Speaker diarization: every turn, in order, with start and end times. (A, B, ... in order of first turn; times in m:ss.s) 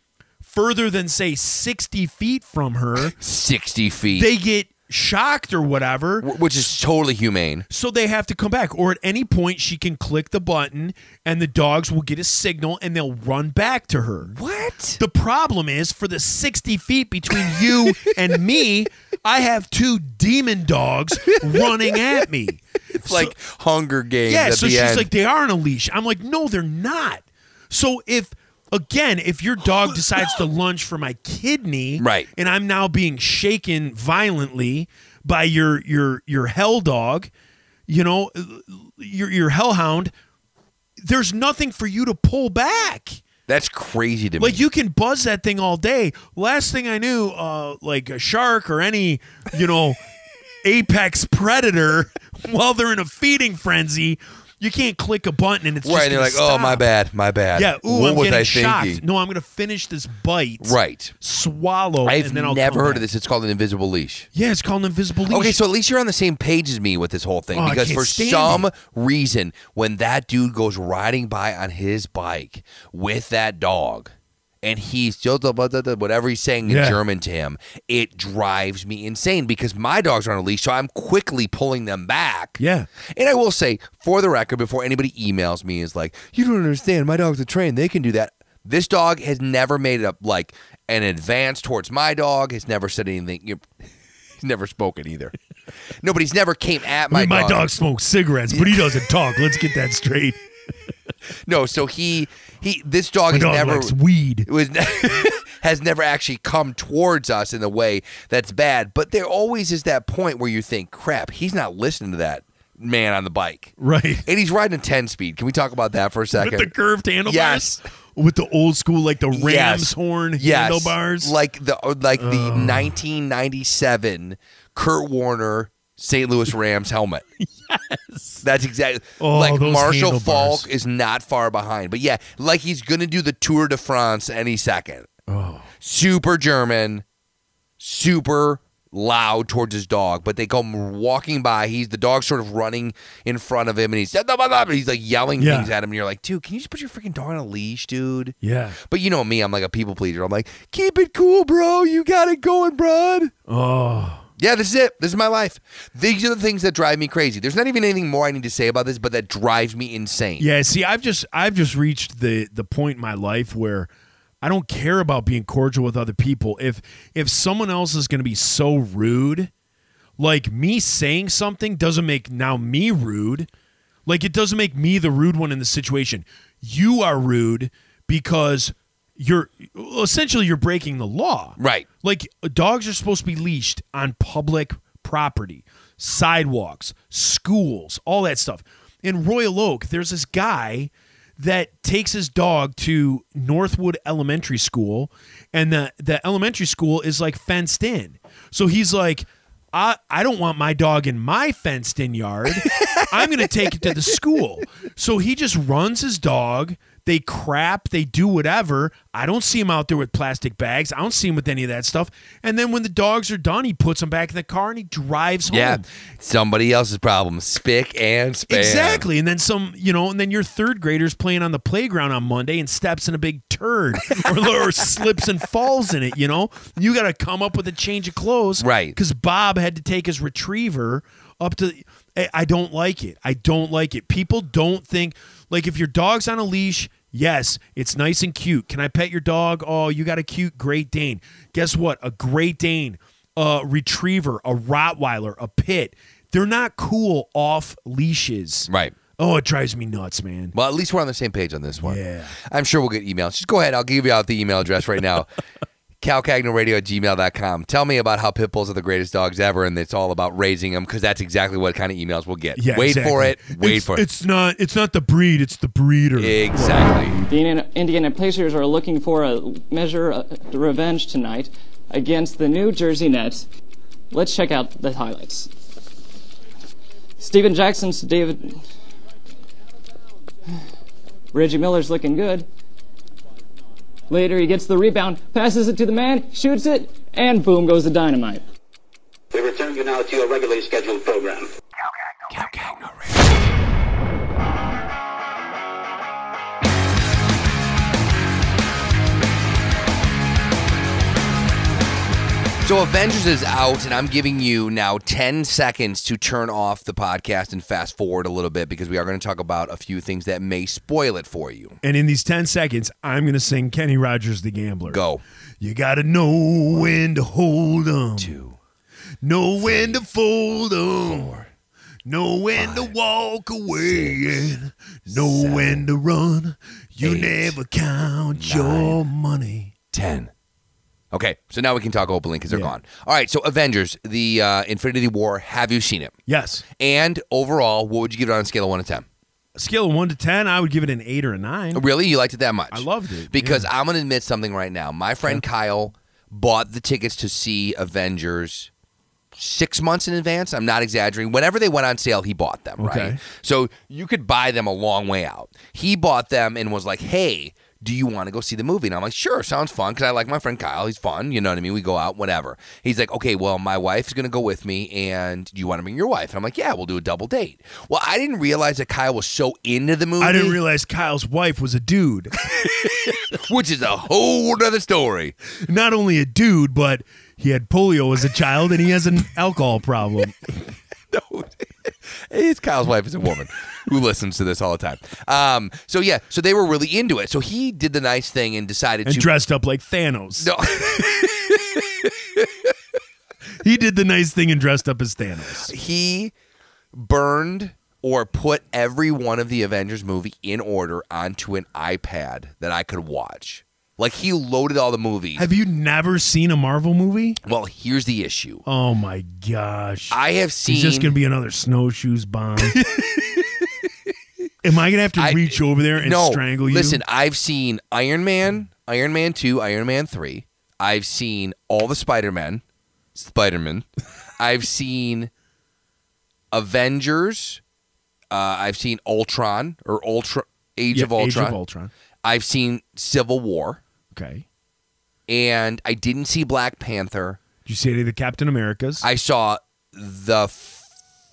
0:00.4-0:03.2 A
0:03.0-0:04.3 B
0:04.1-0:06.3 A
0:06.2-0:07.6 B
0:07.7-0:14.4 A
0:14.3-0:15.0 B
0:15.0-0:23.3 A
0:17.4-0:17.9 B
0:21.3-0:21.7 B
0:22.9-0:25.1 B
0:24.3-0:37.3 A
0:32.0-0:32.3 B
0:37.9-0:40.1 A
0:41.0-0:43.2 A
0:43.5-0:44.6 B
0:44.4-0:50.0 A
0:50.6-0:56.8 A
0:55.8-0:59.0 B
0:57.5-1:03.1 A
1:00.6-1:01.1 B
1:02.0-1:04.3 B
1:04.3-1:05.6 A
1:05.3-1:33.7 B
1:07.5-1:08.7 A
1:16.7-1:17.0 A
1:22.6-1:22.9 A
1:34.4-1:35.3 B
1:36.0-1:37.7 B
1:37.1-1:40.4 A
1:38.5-1:39.0 B
1:41.5-1:44.0 B
1:43.3-1:44.5 A
1:44.5-1:53.7 B
1:53.8-1:54.3 A
1:54.2-1:56.7 B
1:56.4-2:01.3 A
1:57.3-1:57.8 B
1:59.3-2:07.2 B
2:02.2-2:03.0 A
2:07.4-2:08.4 A
2:08.4-2:15.1 B
2:09.2-2:10.7 A
2:15.3-2:15.7 A
2:15.8-2:17.0 B
2:17.8-2:33.3 B
2:25.4-2:25.7 A
2:28.4-2:28.8 A
2:33.5-2:34.3 A
2:34.4-2:40.5 B
2:40.4-2:43.9 A
2:44.4-2:49.5 A
2:50.2-2:53.5 A
2:54.1-3:35.9 A
3:01.6-3:01.9 B
3:22.8-3:23.0 B
3:35.5-3:39.1 B
3:38.5-4:10.5 A
3:48.6-3:49.0 B
4:08.7-4:09.0 B
4:10.5-4:15.3 B
4:11.8-4:12.4 A
4:16.0-4:24.0 B
4:22.6-4:27.3 A
4:26.2-4:27.2 B
4:27.3-4:33.5 C
4:34.1-4:35.5 C
4:37.2-4:38.6 C
4:41.3-4:42.5 C
4:44.1-4:48.4 C
4:49.3-4:51.5 D
4:52.3-4:52.9 B
5:02.6-5:11.8 B
5:11.8-5:15.0 A
5:14.9-5:15.2 B
5:15.6-5:18.4 A
5:18.2-5:18.6 B
5:19.2-5:21.3 A
5:19.6-5:20.0 B
5:21.0-5:21.5 B
5:22.1-5:29.7 A
5:22.6-5:22.9 B
5:23.8-5:24.5 B
5:25.1-5:25.8 B
5:27.0-5:27.6 B
5:28.4-5:29.0 B
5:29.9-5:30.3 B
5:31.1-5:36.2 B
5:36.3-5:36.6 A
5:36.7-5:39.1 B
5:39.6-5:41.8 A
5:41.7-5:48.7 B
5:42.7-5:43.7 A
5:49.4-6:10.6 B
5:52.8-5:53.2 A
6:10.2-6:12.4 A
6:12.5-6:15.4 B
6:15.6-6:20.4 A
6:21.1-6:29.3 B
6:29.0-6:30.6 A
6:30.4-6:32.8 B
6:33.6-6:35.7 A
6:35.6-6:36.3 B
6:36.9-6:45.5 B
6:45.4-6:47.4 A
6:47.4-6:48.6 B
6:48.7-6:52.8 A
6:50.1-6:51.2 B
6:52.8-6:53.8 B
6:54.6-6:57.0 A
6:55.2-7:02.6 B
7:03.2-7:03.9 B
7:04.4-7:05.3 B
7:06.5-7:07.6 B
7:08.3-7:11.6 B
7:10.9-7:11.9 A
7:12.2-7:13.8 B
7:14.1-7:14.4 A
7:15.3-7:17.4 B
7:17.6-7:19.1 A
7:19.0-7:20.9 B